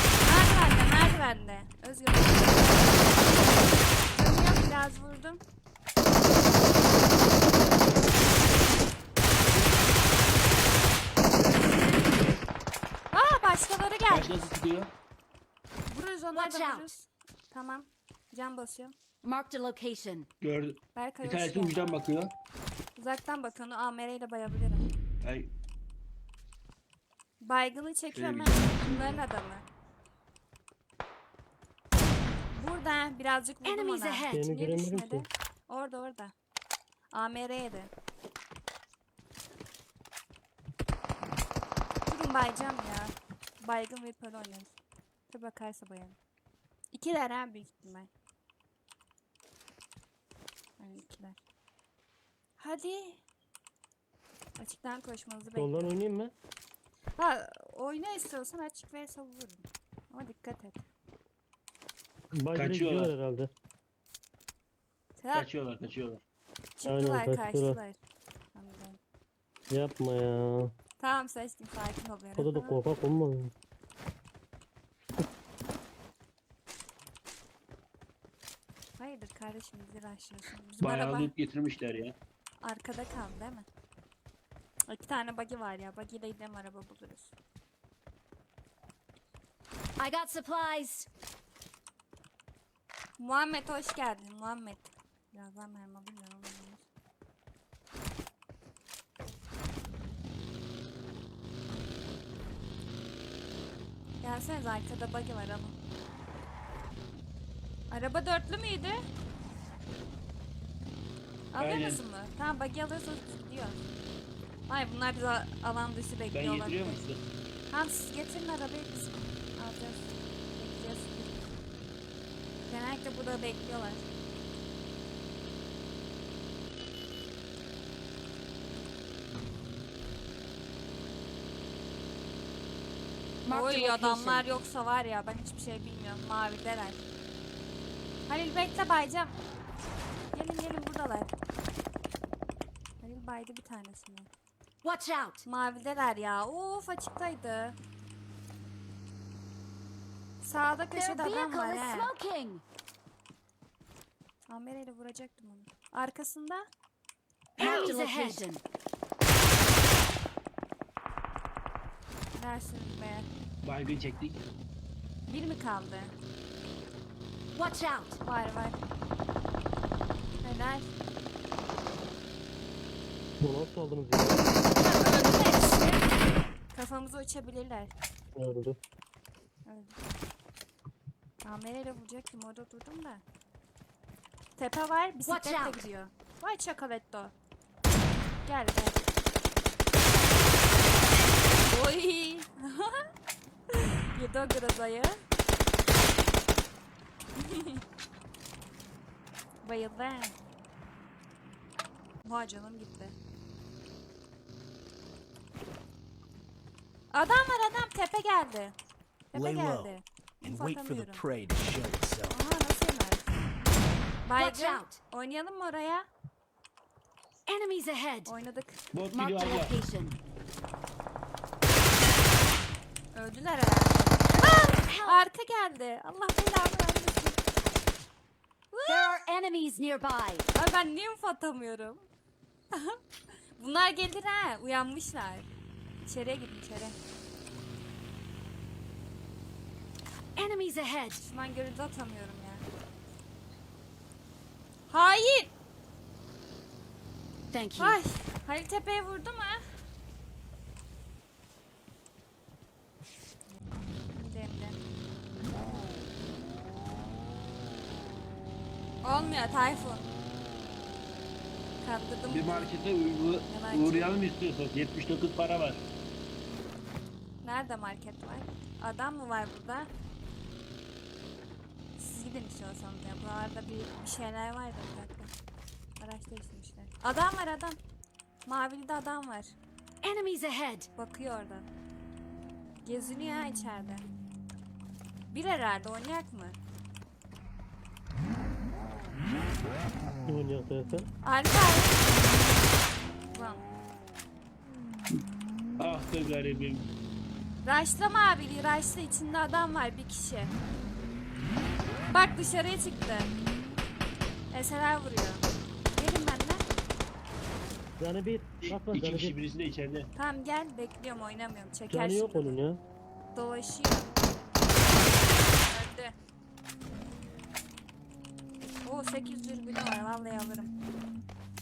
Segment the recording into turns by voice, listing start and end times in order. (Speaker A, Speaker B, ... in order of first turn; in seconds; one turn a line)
Speaker A: 0.2-3.2
Speaker A: 4.1-5.4
Speaker A: 13.1-14.5
Speaker B: 14.1-14.9
Speaker A: 15.9-18.9
Speaker C: 16.3-16.9
Speaker C: 19.2-20.3
Speaker B: 20.4-22.3
Speaker A: 20.9-21.9
Speaker A: 23.0-24.9
Speaker B: 25.2-25.5
Speaker A: 27.4-29.6
Speaker B: 28.1-29.2
Speaker A: 32.5-36.3
Speaker C: 33.6-34.4
Speaker D: 34.3-35.2
Speaker A: 37.1-37.9
Speaker A: 42.0-44.8
Speaker A: 45.3-46.2
Speaker A: 46.9-48.1
Speaker A: 50.8-51.4
Speaker A: 52.6-53.2
Speaker A: 54.6-55.9
Speaker D: 55.5-56.3
Speaker A: 57.2-60.9
Speaker D: 62.3-63.5
Speaker B: 62.5-63.1
Speaker A: 65.2-65.5
Speaker B: 65.3-66.2
Speaker A: 66.8-68.0
Speaker D: 66.8-67.8
Speaker A: 68.5-69.0
Speaker D: 69.7-70.7
Speaker A: 71.0-72.8
Speaker D: 72.3-73.5
Speaker A: 79.0-81.3
Speaker B: 80.8-82.2
Speaker A: 82.6-83.7
Speaker A: 84.9-87.3
Speaker C: 90.0-91.1
Speaker A: 93.2-96.8
Speaker A: 104.2-105.8
Speaker A: 107.9-109.0
Speaker A: 111.5-113.8
Speaker B: 111.6-112.0
Speaker A: 114.7-117.0
Speaker B: 116.3-117.2
Speaker A: 117.7-121.3
Speaker A: 122.7-124.0
Speaker C: 133.4-134.4
Speaker A: 133.5-137.0
Speaker A: 138.3-139.3
Speaker A: 140.3-141.3
Speaker A: 143.0-144.3
Speaker C: 144.8-145.4
Speaker A: 145.4-147.8
Speaker A: 150.4-152.1
Speaker C: 150.9-152.6
Speaker A: 154.5-156.6
Speaker A: 157.6-158.4
Speaker C: 157.6-158.6
Speaker A: 162.3-163.3
Speaker B: 163.6-164.4
Speaker A: 165.3-166.1
Speaker C: 167.5-168.2
Speaker A: 168.2-168.8
Speaker A: 170.4-170.9
Speaker D: 173.4-174.5
Speaker A: 174.8-176.0
Speaker A: 176.7-177.9
Speaker D: 178.3-178.8
Speaker A: 179.7-179.9
Speaker A: 181.4-183.2
Speaker A: 184.6-187.3
Speaker C: 185.2-185.9
Speaker A: 188.4-189.0
Speaker A: 191.6-193.1
Speaker A: 193.7-195.2
Speaker A: 197.4-197.8
Speaker A: 199.6-200.4
Speaker A: 202.2-203.2
Speaker A: 207.1-208.7
Speaker A: 209.3-211.2
Speaker E: 209.3-212.3
Speaker A: 212.2-213.3
Speaker A: 214.2-216.1
Speaker C: 214.4-215.0
Speaker C: 217.5-218.3
Speaker A: 218.2-218.8
Speaker B: 218.9-219.8
Speaker C: 219.1-220.2
Speaker A: 223.1-227.4
Speaker C: 224.8-225.2
Speaker A: 228.7-229.2
Speaker C: 228.8-230.5
Speaker A: 230.5-232.0
Speaker A: 232.7-233.0
Speaker A: 233.5-235.5
Speaker A: 236.0-237.0
Speaker C: 240.3-241.2
Speaker A: 241.2-242.6
Speaker A: 244.9-245.5
Speaker C: 247.5-248.0
Speaker A: 247.8-249.6
Speaker A: 254.1-254.8
Speaker A: 259.0-260.1
Speaker A: 261.8-262.7
Speaker B: 262.3-265.8
Speaker A: 263.4-264.1
Speaker A: 267.4-269.9
Speaker A: 271.9-275.3
Speaker A: 276.0-277.8
Speaker A: 278.4-279.5
Speaker C: 280.0-280.9
Speaker A: 280.9-281.7
Speaker A: 282.8-284.1
Speaker A: 285.3-286.6
Speaker D: 290.2-291.1
Speaker A: 291.2-292.1
Speaker A: 293.3-293.6
Speaker B: 295.8-296.9
Speaker A: 297.6-300.5
Speaker A: 302.1-303.3
Speaker A: 304.5-306.6
Speaker D: 308.0-309.3
Speaker B: 308.6-310.1
Speaker A: 310.1-312.6
Speaker D: 311.9-312.8
Speaker A: 313.3-316.1
Speaker A: 318.8-320.7